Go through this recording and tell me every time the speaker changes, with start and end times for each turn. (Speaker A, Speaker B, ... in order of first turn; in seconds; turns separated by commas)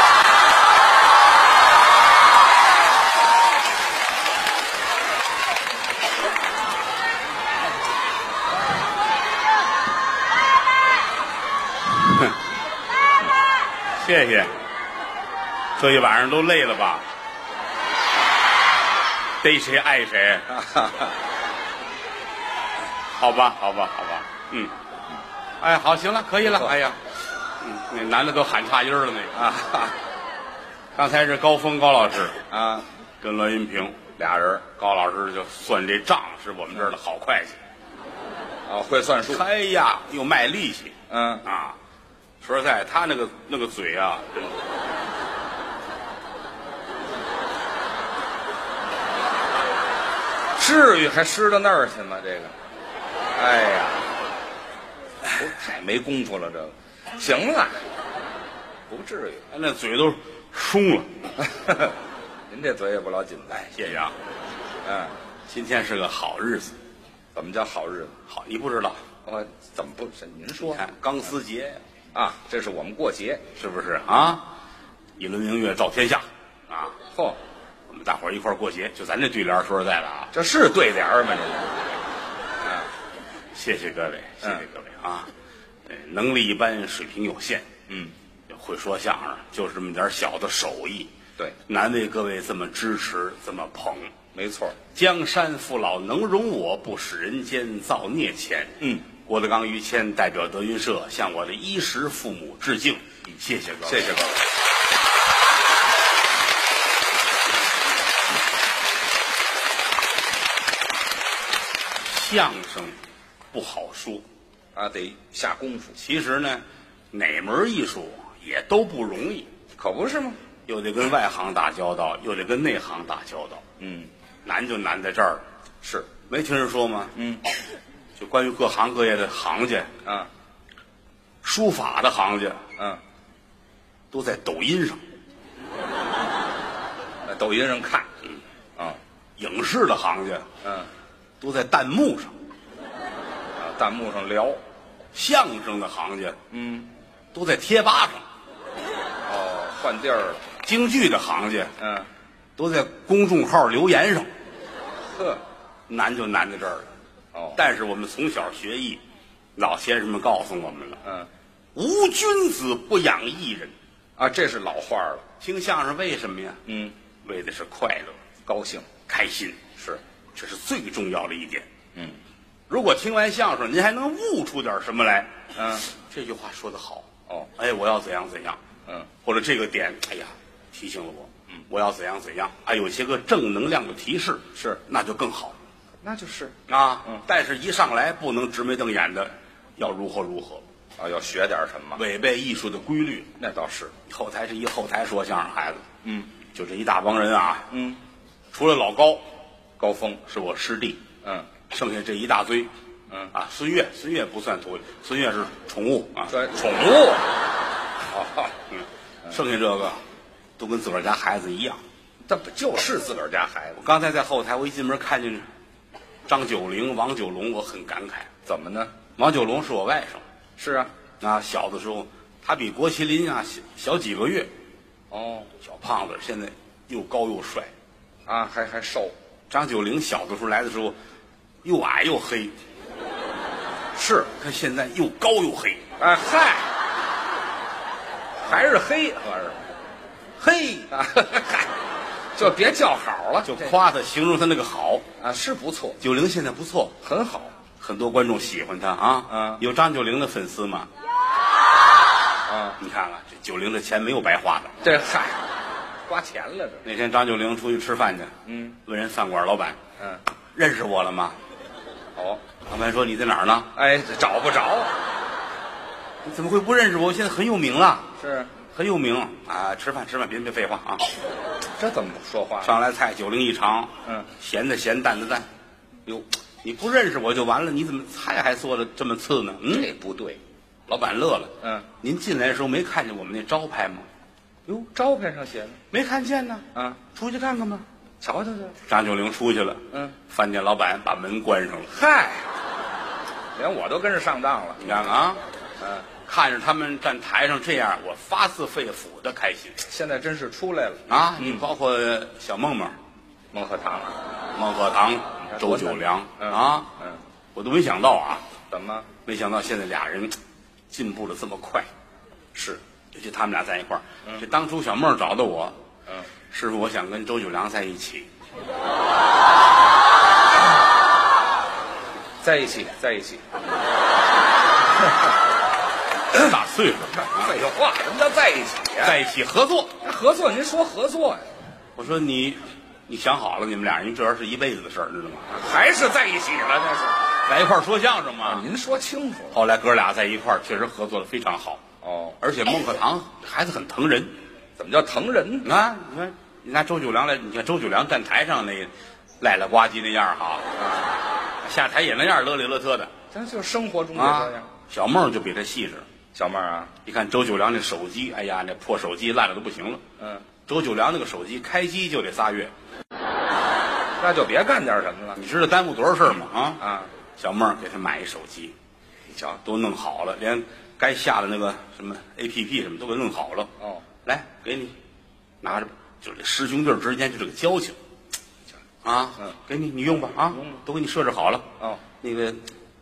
Speaker A: 12.0-12.3, Speaker A: 13.9-14.5, Speaker A: 15.8-17.1, Speaker A: 19.4-20.5, Speaker B: 20.5-21.1, Speaker A: 23.1-24.7, Speaker A: 25.6-29.5, Speaker B: 29.3-29.9, Speaker A: 30.9-32.4, Speaker B: 32.5-32.8, Speaker A: 33.2-34.0, Speaker B: 34.1-34.6, Speaker A: 34.7-37.6, Speaker B: 38.7-39.4, Speaker A: 39.3-41.8, Speaker B: 41.1-41.4, Speaker A: 42.4-44.5, Speaker B: 50.6-52.5, Speaker B: 53.4-54.1, Speaker B: 55.3-57.8, Speaker B: 58.9-59.4, Speaker A: 59.5-61.3, Speaker B: 61.4-61.9, Speaker B: 62.5-64.0, Speaker A: 63.5-64.1, Speaker B: 64.8-65.1, Speaker A: 65.5-66.8, Speaker B: 67.3-68.2, Speaker A: 68.3-69.0, Speaker B: 69.2-70.8, Speaker A: 70.6-71.8, Speaker B: 72.1-73.5, Speaker A: 73.5-74.5, Speaker A: 75.2-77.0, Speaker A: 77.9-80.3, Speaker B: 80.3-81.8, Speaker A: 83.5-85.3, Speaker A: 85.8-87.7, Speaker B: 87.9-88.1, Speaker A: 88.5-91.1, Speaker A: 91.7-94.1, Speaker B: 94.3-94.8, Speaker A: 94.9-104.1, Speaker B: 98.8-99.0, Speaker B: 103.8-104.4, Speaker A: 112.0-113.0, Speaker A: 113.5-114.2, Speaker B: 114.7-116.0, Speaker A: 116.0-119.5, Speaker B: 119.8-120.4, Speaker A: 120.7-123.6, Speaker B: 123.8-124.1, Speaker A: 124.4-125.4, Speaker B: 125.8-126.1, Speaker A: 126.2-127.1, Speaker B: 127.1-127.4, Speaker A: 128.2-129.9, Speaker A: 131.4-132.6, Speaker A: 134.1-135.0, Speaker B: 137.2-138.1, Speaker A: 139.4-140.5, Speaker B: 140.6-140.9, Speaker A: 141.4-142.3, Speaker B: 143.6-144.6, Speaker A: 145.1-146.4, Speaker B: 146.5-146.9, Speaker A: 147.3-148.2, Speaker B: 149.2-150.4, Speaker A: 150.6-151.7, Speaker B: 151.8-152.1, Speaker A: 152.6-154.3, Speaker B: 155.1-155.4, Speaker A: 155.9-156.9, Speaker B: 157.3-157.6, Speaker A: 157.6-159.0, Speaker A: 159.6-161.0, Speaker A: 161.7-163.7, Speaker B: 164.2-165.2, Speaker A: 165.4-166.6, Speaker B: 166.7-166.9, Speaker A: 167.2-168.2, Speaker B: 168.4-168.9, Speaker A: 169.1-169.7, Speaker A: 170.3-171.7, Speaker A: 172.7-178.6, Speaker B: 175.6-175.9, Speaker A: 179.2-185.6, Speaker B: 184.5-184.8, Speaker B: 186.0-187.2, Speaker A: 186.7-190.6, Speaker B: 191.0-192.0, Speaker A: 191.9-193.3, Speaker B: 193.4-193.9, Speaker A: 194.1-195.8, Speaker B: 196.0-196.3, Speaker A: 196.5-197.7, Speaker B: 197.7-198.0, Speaker A: 198.5-199.2, Speaker B: 199.8-200.2, Speaker A: 200.2-201.0, Speaker B: 201.2-201.5, Speaker A: 201.7-202.7, Speaker A: 203.3-206.3, Speaker B: 206.3-207.3, Speaker B: 208.1-208.5, Speaker A: 208.7-210.0, Speaker A: 210.6-211.8, Speaker B: 212.2-213.8, Speaker A: 213.8-215.4, Speaker A: 216.3-218.3, Speaker B: 218.4-218.9, Speaker A: 219.2-220.2, Speaker B: 220.6-220.9, Speaker A: 221.2-224.5, Speaker B: 225.1-225.5, Speaker A: 225.6-227.7, Speaker B: 228.2-229.1, Speaker A: 229.5-230.9, Speaker A: 231.6-232.5, Speaker B: 233.9-234.3, Speaker A: 234.3-235.9, Speaker B: 236.0-236.7, Speaker B: 238.4-239.7, Speaker A: 240.4-240.9, Speaker B: 240.9-241.7, Speaker B: 242.3-243.7, Speaker A: 243.4-245.0, Speaker B: 245.2-246.0, Speaker A: 246.0-247.0, Speaker B: 247.0-247.5, Speaker A: 247.8-250.9, Speaker B: 249.3-249.6, Speaker B: 252.5-252.8, Speaker A: 252.8-254.8, Speaker B: 254.8-255.4, Speaker B: 256.1-256.8, Speaker A: 256.8-258.3, Speaker B: 258.4-258.8, Speaker A: 258.8-259.8, Speaker A: 260.5-261.4, Speaker B: 262.1-262.4, Speaker A: 262.7-263.7, Speaker B: 263.7-264.9, Speaker A: 266.2-268.1, Speaker B: 268.2-268.5, Speaker A: 268.7-271.1, Speaker B: 271.8-272.7, Speaker A: 272.6-275.5, Speaker A: 276.6-279.9, Speaker B: 279.7-280.4, Speaker A: 280.9-284.1, Speaker B: 281.6-281.9, Speaker B: 284.6-285.8, Speaker A: 285.9-287.8, Speaker B: 286.7-287.0, Speaker B: 288.2-288.8, Speaker A: 288.9-291.9, Speaker B: 291.9-292.5, Speaker B: 293.5-294.9, Speaker A: 294.8-295.4, Speaker B: 295.8-296.1, Speaker A: 296.2-299.8, Speaker B: 299.9-301.6, Speaker A: 301.1-302.9, Speaker B: 303.5-304.2, Speaker A: 304.5-306.9, Speaker B: 305.4-307.2, Speaker A: 307.5-308.4, Speaker B: 308.7-309.1, Speaker A: 309.2-310.4, Speaker A: 310.9-311.9, Speaker B: 312.5-312.8, Speaker A: 313.1-315.8, Speaker A: 316.5-318.3, Speaker B: 322.4-323.4, Speaker A: 326.3-327.5, Speaker B: 327.2-329.2, Speaker A: 329.0-329.9, Speaker B: 330.0-331.4, Speaker A: 331.9-335.5, Speaker B: 335.5-337.2, Speaker A: 337.4-338.7, Speaker B: 338.4-339.6, Speaker A: 339.5-341.8, Speaker B: 342.0-342.4, Speaker A: 342.4-344.3, Speaker B: 344.8-345.7, Speaker A: 345.6-348.9, Speaker A: 349.4-350.7, Speaker B: 350.8-351.1, Speaker A: 351.6-353.1, Speaker B: 353.3-354.7, Speaker A: 354.1-356.1, Speaker B: 356.3-356.9, Speaker A: 357.0-360.0, Speaker B: 360.2-360.4, Speaker A: 360.6-362.7, Speaker B: 364.2-365.4, Speaker A: 365.4-366.8, Speaker B: 366.8-367.1, Speaker A: 367.4-368.7, Speaker B: 369.3-369.6, Speaker A: 369.6-373.7, Speaker A: 374.2-374.9, Speaker A: 375.6-378.0, Speaker A: 379.0-381.7, Speaker A: 382.2-382.6